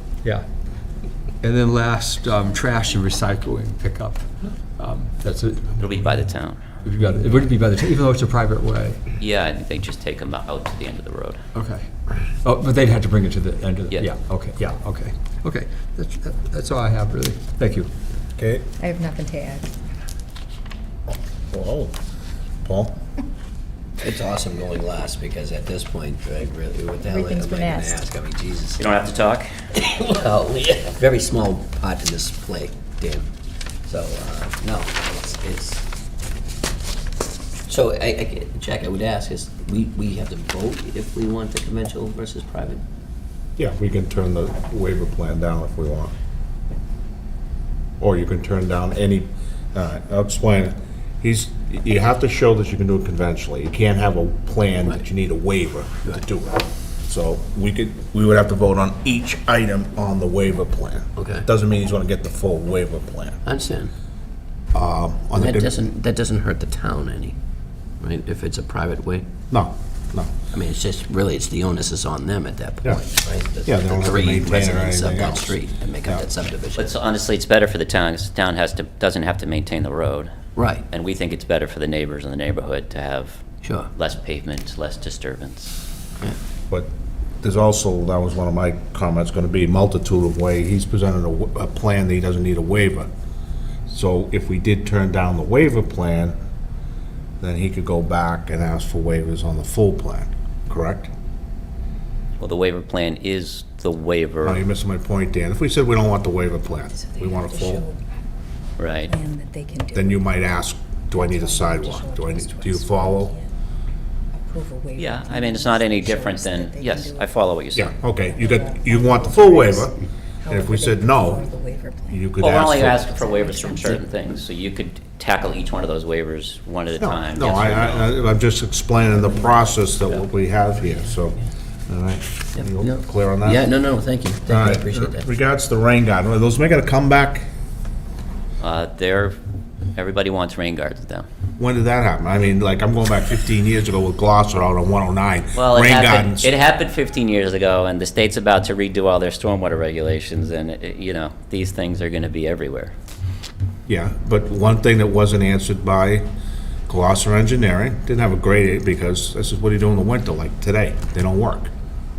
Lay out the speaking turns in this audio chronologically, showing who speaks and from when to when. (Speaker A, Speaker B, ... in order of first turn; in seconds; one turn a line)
Speaker A: 1.4-5.8
Speaker B: 5.8-6.6
Speaker A: 6.8-9.0
Speaker B: 9.2-11.4
Speaker A: 11.5-11.9
Speaker A: 12.4-17.9
Speaker C: 18.4-18.6
Speaker D: 18.8-19.6
Speaker C: 21.5-21.9
Speaker C: 22.6-22.9
Speaker E: 24.0-28.8
Speaker A: 27.1-27.5
Speaker B: 28.8-29.5
Speaker E: 29.8-33.3
Speaker E: 33.9-35.8
Speaker E: 37.7-42.8
Speaker C: 43.6-46.1
Speaker C: 48.0-63.4
Speaker E: 61.2-61.5
Speaker E: 63.4-63.9
Speaker C: 64.7-65.8
Speaker E: 65.3-67.3
Speaker E: 68.0-69.3
Speaker C: 69.5-70.3
Speaker E: 70.5-76.9
Speaker C: 73.6-76.2
Speaker B: 76.7-80.3
Speaker E: 80.5-80.8
Speaker B: 80.9-83.4
Speaker E: 83.6-83.9
Speaker B: 83.9-85.8
Speaker C: 87.4-93.1
Speaker C: 93.9-96.3
Speaker C: 97.4-101.1
Speaker B: 102.4-104.6
Speaker C: 104.4-107.8
Speaker D: 106.9-108.0
Speaker B: 108.8-109.1
Speaker D: 109.1-110.1
Speaker C: 109.9-113.3
Speaker A: 111.2-112.4
Speaker D: 111.5-113.5
Speaker D: 114.4-117.3
Speaker B: 115.0-117.9
Speaker C: 117.7-119.9
Speaker D: 118.3-119.9
Speaker A: 118.9-119.7
Speaker D: 120.5-122.1
Speaker C: 120.5-121.5
Speaker C: 122.1-123.0
Speaker B: 122.4-128.2
Speaker D: 123.0-123.8
Speaker C: 127.0-133.7
Speaker E: 132.6-135.3
Speaker C: 134.5-137.5
Speaker B: 138.6-139.4
Speaker B: 139.9-141.3
Speaker C: 141.6-146.5
Speaker B: 145.6-152.9
Speaker C: 153.9-156.2
Speaker C: 156.9-161.7